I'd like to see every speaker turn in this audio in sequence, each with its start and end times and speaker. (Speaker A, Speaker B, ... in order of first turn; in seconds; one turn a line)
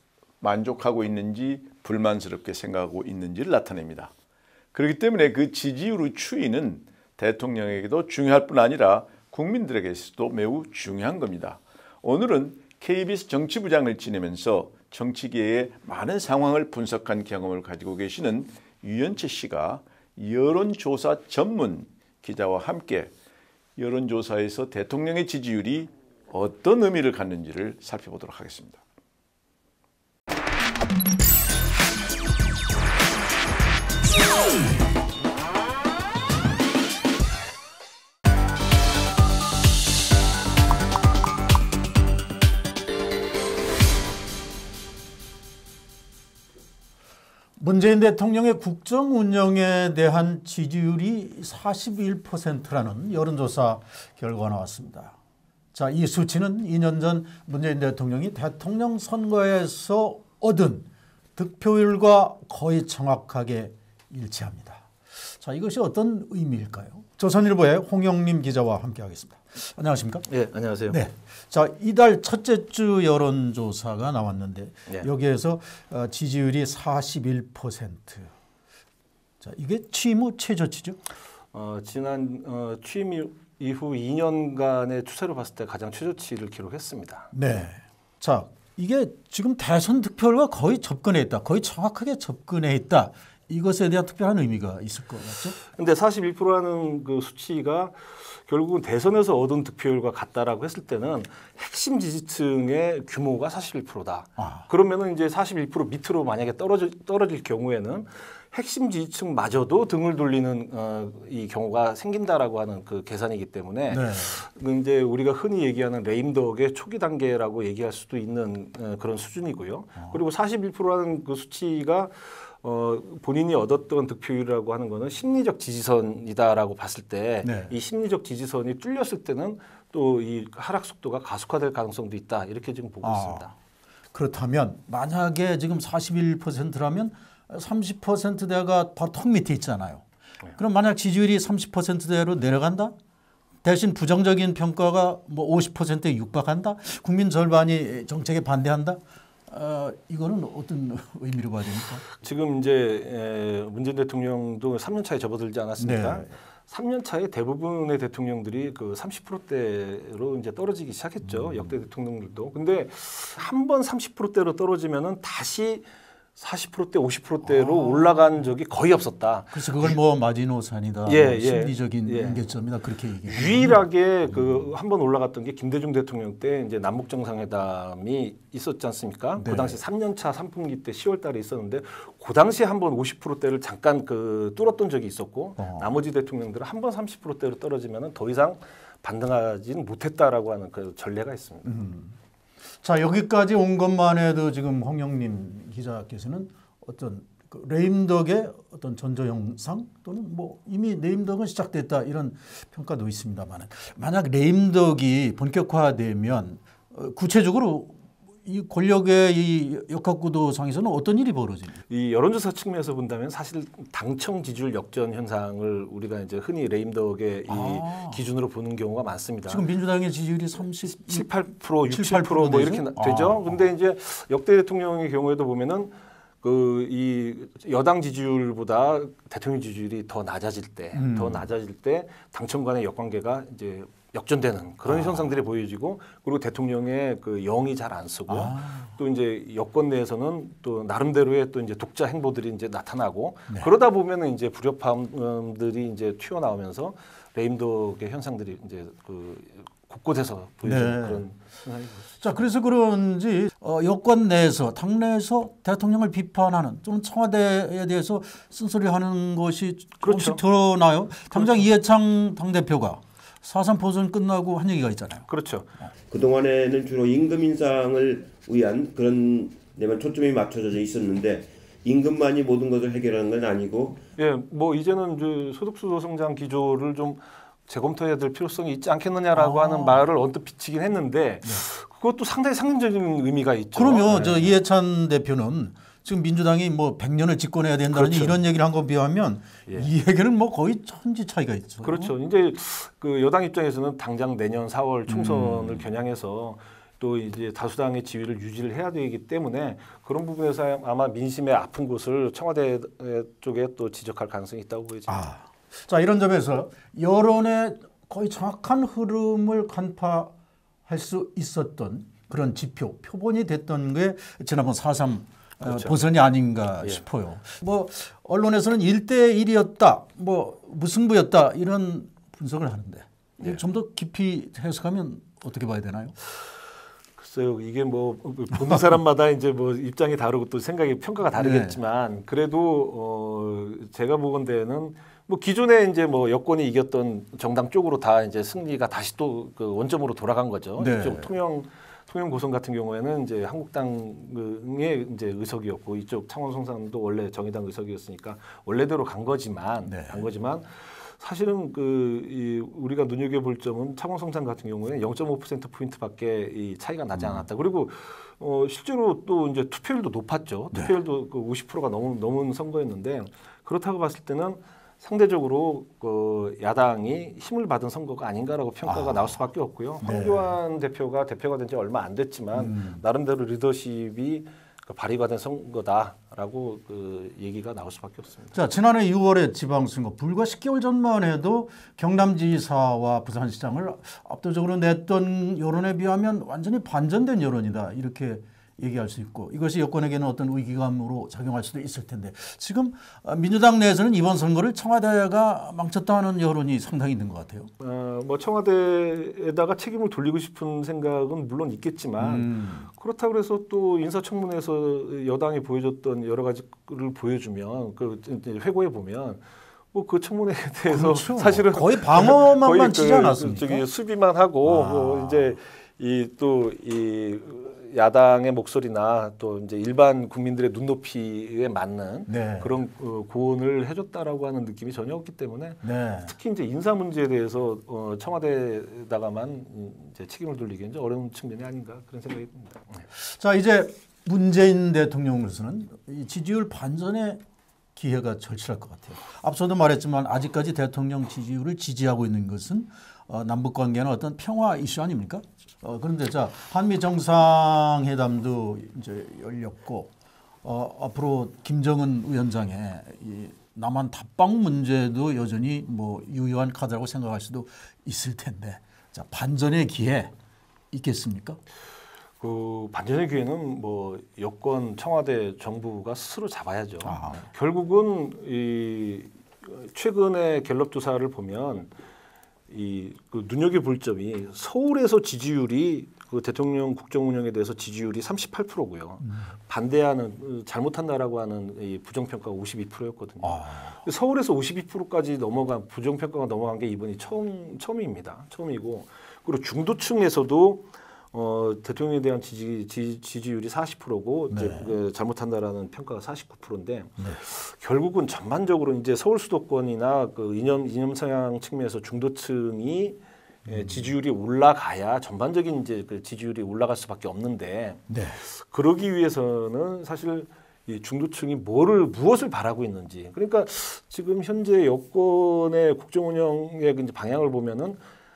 Speaker A: 0.4-4.1
Speaker A: 4.7-23.1
Speaker A: 23.8-28.8
Speaker B: 47.6-55.1
Speaker B: 55.7-70.3
Speaker C: 70.3-71.0
Speaker B: 70.9-78.3
Speaker B: 79.4-81.0
Speaker C: 81.5-87.3
Speaker B: 87.3-95.6
Speaker C: 95.7-133.5
Speaker B: 104.4-104.7
Speaker B: 113.9-114.4
Speaker B: 127.4-127.7
Speaker B: 133.0-133.5
Speaker B: 134.1-140.0
Speaker B: 140.6-142.9
Speaker B: 143.6-152.1
Speaker C: 152.2-170.0
Speaker B: 155.8-156.3
Speaker B: 161.2-161.7
Speaker B: 167.4-168.3
Speaker B: 169.5-174.7
Speaker C: 171.1-172.5
Speaker C: 173.2-191.8
Speaker B: 179.4-179.8
Speaker B: 185.6-185.9
Speaker B: 191.6-192.1
Speaker B: 192.8-211.8
Speaker C: 211.9-219.6
Speaker B: 217.5-218.2
Speaker B: 219.5-223.6
Speaker C: 220.9-252.1
Speaker B: 230.9-231.5
Speaker B: 234.9-235.2
Speaker B: 238.3-238.9
Speaker B: 250.6-251.3
Speaker B: 252.2-265.3
Speaker C: 260.0-260.4
Speaker C: 261.3-261.6
Speaker C: 265.3-265.7
Speaker D: 266.1-274.0
Speaker C: 274.2-284.6
Speaker B: 279.3-280.0
Speaker B: 283.7-292.1
Speaker C: 287.9-288.4
Speaker C: 289.6-289.9
Speaker C: 291.8-305.2
Speaker B: 295.1-295.8
Speaker B: 305.1-310.3
Speaker B: 310.9-326.1
Speaker C: 315.6-316.0
Speaker C: 327.1-378.6
Speaker B: 331.3-331.8
Speaker B: 340.8-341.3
Speaker B: 349.9-350.3
Speaker B: 357.1-357.4
Speaker B: 368.8-369.3
Speaker B: 370.0-370.5
Speaker B: 372.5-373.0
Speaker B: 378.5-397.7
Speaker C: 397.8-433.1
Speaker B: 402.2-402.9
Speaker B: 410.9-413.8
Speaker B: 414.6-415.5
Speaker B: 422.3-422.7
Speaker B: 425.8-426.3
Speaker B: 433.1-437.4
Speaker B: 437.9-450.1
Speaker B: 450.6-460.3
Speaker B: 460.9-461.6
Speaker C: 462.4-471.9
Speaker B: 467.0-467.5
Speaker C: 472.7-518.0
Speaker B: 483.4-484.0
Speaker B: 494.5-494.9
Speaker B: 503.6-504.1
Speaker B: 508.1-508.4